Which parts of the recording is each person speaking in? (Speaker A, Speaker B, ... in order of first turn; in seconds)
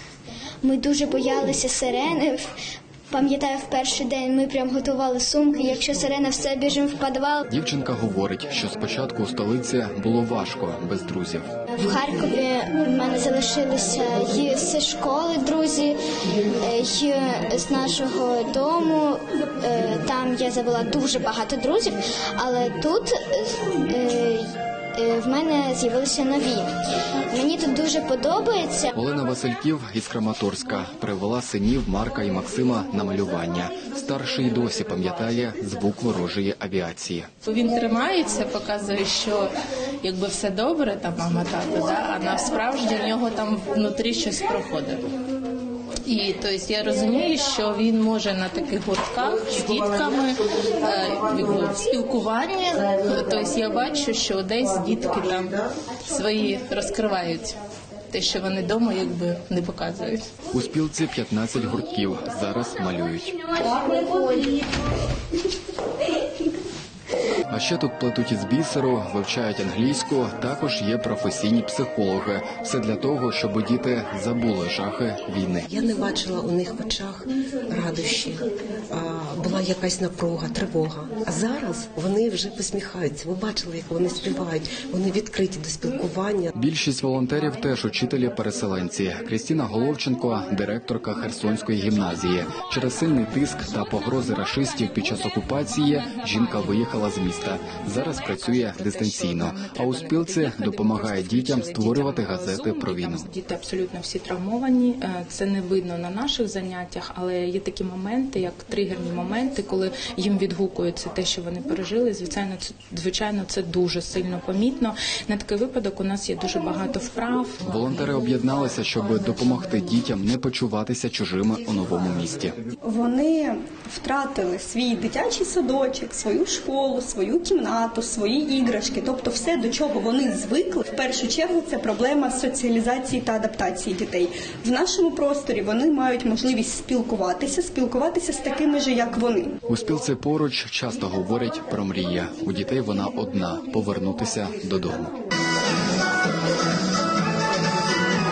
Speaker A: 0.6-2.5, 3.1-7.5, 11.8-16.0, 16.6-26.6, 27.3-28.9
Speaker B: 7.5-11.5, 28.9-37.3, 60.5-63.4, 67.5-75.7, 86.6-103.2, 117.6-122.6, 139.7-145.1
Speaker C: 37.5-39.5, 40.0-45.0, 46.1-57.5, 58.1-60.2, 63.9-64.4, 98.7-102.5
Speaker D: 37.7-38.4, 41.3-41.8, 49.0-50.3, 50.9-55.5, 56.2-57.5, 58.2-60.0, 100.4-117.6
Speaker E: 75.7-86.5
Speaker F: 122.8-139.5